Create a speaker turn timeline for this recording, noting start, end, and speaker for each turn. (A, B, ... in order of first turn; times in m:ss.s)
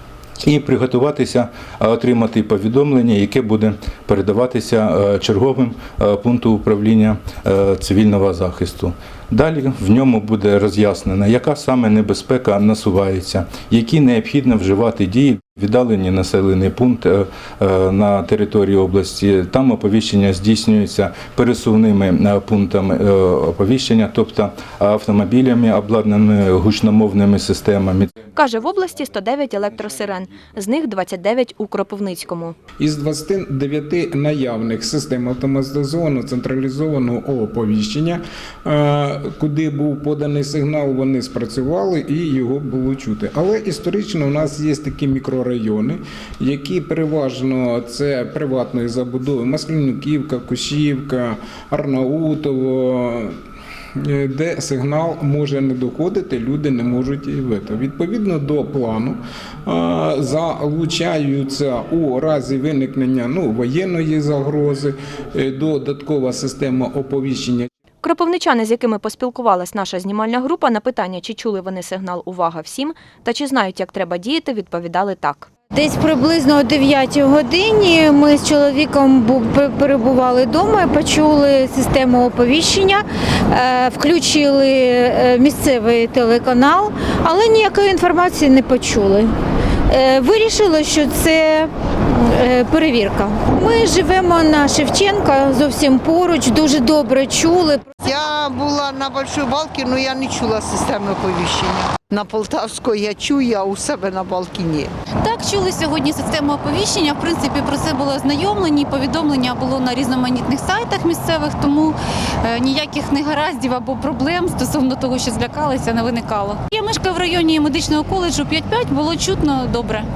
0:00.4-0:28.1 A
0:28.3-0:32.6 B
0:32.8-0:53.4 C
0:54.0-1:07.7 C
1:08.0-1:15.5 B
1:15.7-1:29.3 D
1:29.9-1:37.9 D
1:38.0-1:44.9 E
1:45.2-2:00.1 F